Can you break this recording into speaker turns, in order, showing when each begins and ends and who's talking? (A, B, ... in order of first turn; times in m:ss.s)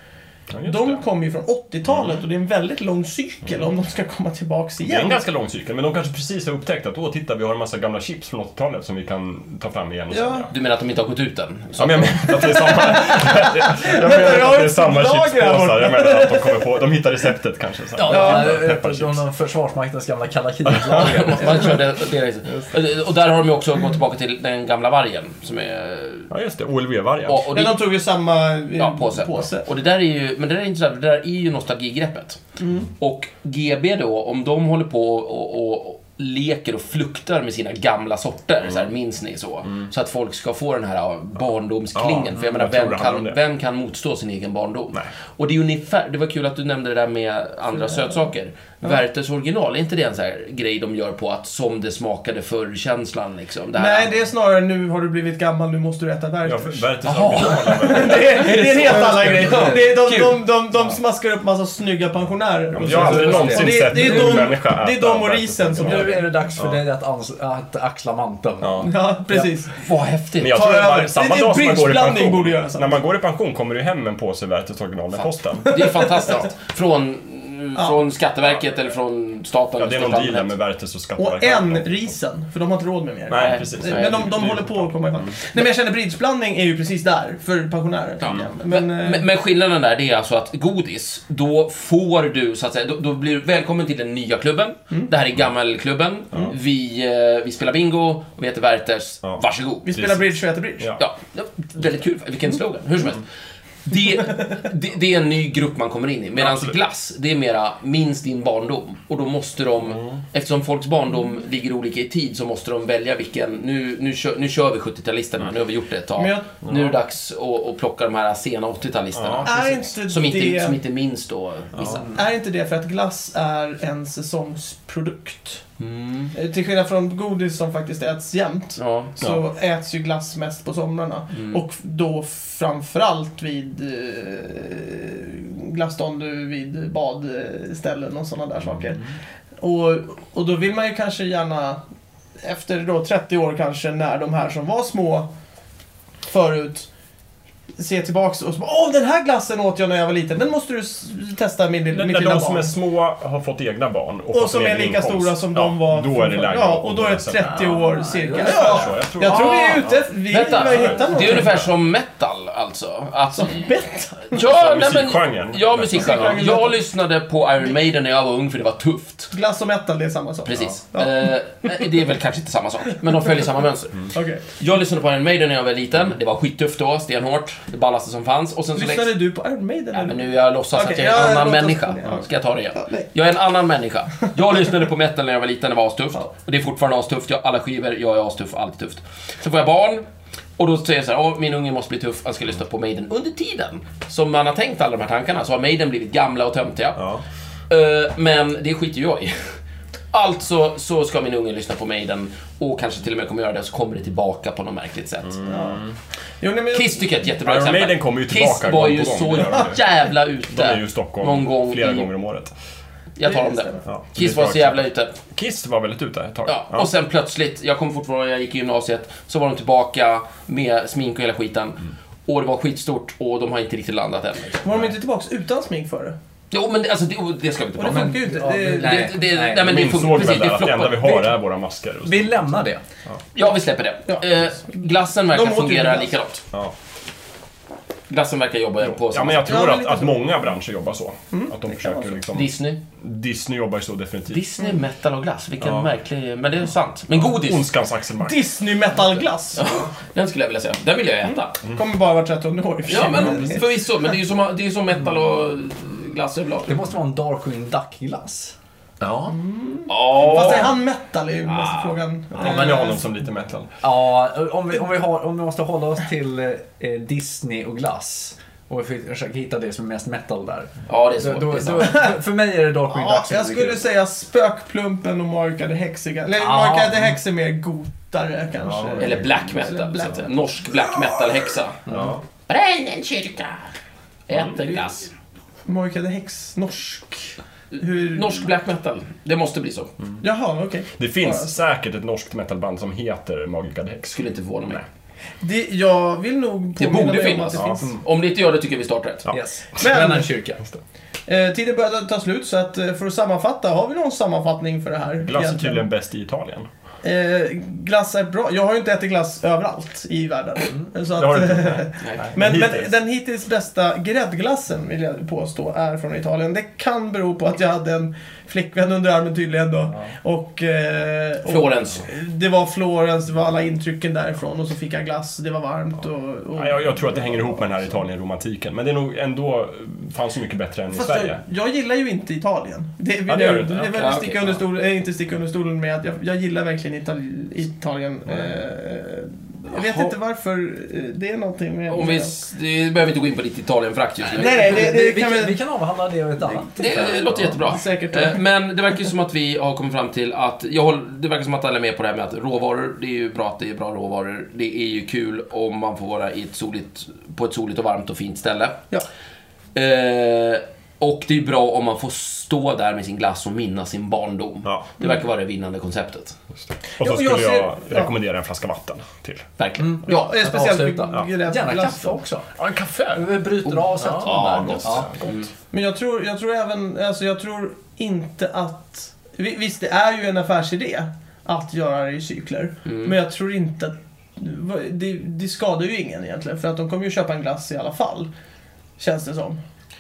0:00.5-0:01.0 A
0:00.6-0:05.2 B
0:01.9-0:02.2 A
0:04.8-0:10.5 A
0:10.1-0:10.5 B
0:10.5-0:12.5 C
0:11.8-0:19.2 A
0:12.4-0:16.8 B
0:17.9-0:21.8 D
0:18.0-0:18.6 B
0:20.8-0:26.3 C
0:26.3-0:27.5 A
0:27.2-0:27.8 C
0:27.5-0:29.6 B
0:28.8-0:32.4 C
0:32.6-0:32.9 B
0:33.0-0:54.1 C
0:42.0-0:43.4 A
0:53.7-1:06.3 B
0:56.4-0:58.7 A
0:57.0-1:00.4 C
1:02.7-1:06.8 A
1:02.8-1:04.5 D
1:05.8-1:09.5 D
1:08.6-1:08.9 A
1:08.8-1:09.7 B
1:09.8-1:10.6 C
1:10.4-1:16.0 A
1:10.5-1:13.0 B
1:15.7-1:20.5 C
1:15.7-1:16.4 B
1:19.8-1:22.1 A
1:21.2-1:29.2 B
1:23.3-1:25.4 A
1:23.3-1:24.3 C
1:28.2-1:39.9 C
1:39.8-1:41.0 B
1:39.9-1:41.0 A
1:41.0-1:43.2 C
1:43.8-2:02.1 C
1:46.4-1:46.7 A
1:56.2-1:56.7 B
1:59.1-1:59.5 A
1:59.4-2:00.8 B
2:02.0-2:05.6 B
2:05.8-2:06.3 C
2:06.3-2:21.8 B
2:08.8-2:09.1 C
2:11.3-2:11.6 C
2:22.4-2:25.3 B
2:26.3-2:26.9 B
2:27.8-2:32.7 B
2:31.9-2:37.7 A
2:34.3-2:41.6 B
2:37.4-2:39.0 D
2:38.4-2:41.7 A
2:39.2-2:43.7 C
2:43.3-2:44.5 B
2:44.3-2:49.3 C
2:44.4-2:46.5 A
2:45.9-2:46.8 B
2:49.3-2:51.9 B
2:50.4-2:59.2 C
2:54.1-2:54.4 B
2:58.7-3:02.2 B
2:59.9-3:10.0 C
3:02.7-3:03.1 B
3:10.6-3:17.0 C
3:17.0-3:17.2 A
3:17.7-3:19.6 C
3:20.1-3:25.4 C
3:25.4-3:25.8 B
3:25.4-3:25.9 A
3:26.4-3:27.1 B
3:26.7-3:32.1 C
3:27.4-3:29.8 A
3:30.5-3:32.5 A
3:33.2-3:35.2 C
3:33.2-3:33.8 B
3:33.9-3:36.9 A
3:36.5-3:44.8 C
3:44.6-3:46.2 B
3:46.5-3:51.3 C
3:47.8-3:49.1 B
3:47.8-3:49.7 D
3:49.5-3:52.4 A
3:52.0-3:52.8 D
3:53.3-3:56.4 C
3:54.1-3:56.1 B
3:58.1-3:59.6 C
3:58.8-4:04.4 A
3:59.4-4:00.4 B
4:01.3-4:02.2 B
4:02.3-4:02.8 C
4:04.3-4:07.7 C
4:05.6-4:05.9 A
4:07.1-4:08.4 A
4:08.2-4:09.6 B
4:09.6-4:11.6 C
4:11.3-4:13.7 B
4:12.9-4:16.8 C
4:13.0-4:13.5 A
4:16.7-4:18.5 D
4:19.0-4:19.3 C
4:19.3-4:23.1 B
4:19.9-4:20.8 C
4:21.4-4:22.7 C
4:22.4-4:23.7 A
4:23.8-4:33.8 D
4:30.9-4:32.1 C
4:31.8-4:32.1 B
4:32.9-4:40.2 B
4:36.4-4:37.1 D
4:38.6-4:39.4 A
4:39.0-4:41.8 C
4:41.9-4:42.2 A
4:42.5-4:43.7 C
4:44.3-4:45.1 C
4:45.6-4:48.5 B
4:47.7-4:49.9 C
4:50.2-4:51.5 B
4:51.0-4:54.2 A
4:54.1-4:54.8 C
4:55.4-4:58.0 B
4:56.8-4:59.3 C
4:59.3-5:00.6 D
4:59.8-5:00.3 B
5:01.3-5:05.9 B
5:05.2-5:06.7 A
5:07.0-5:27.6 B
5:11.1-5:12.9 A
5:12.0-5:12.3 C
5:21.4-5:22.0 C
5:26.5-5:31.4 A
5:30.9-5:42.3 B
5:33.3-5:34.1 A
5:33.9-5:34.6 C
5:39.7-5:40.1 C
5:41.9-5:44.9 C
5:44.2-5:47.7 D
5:44.3-5:45.6 B
5:46.8-5:58.8 C
5:47.6-5:48.4 B
5:59.7-6:06.4 C
6:07.0-6:08.1 B
6:07.0-6:09.4 A
6:09.6-6:10.3 C
6:09.8-6:12.5 D
6:10.1-6:12.2 B
6:12.6-6:13.3 A
6:13.1-6:15.4 D
6:13.7-6:15.5 C
6:14.2-6:15.1 A
6:15.7-6:28.3 B
6:22.8-6:23.1 C
6:29.0-6:29.6 B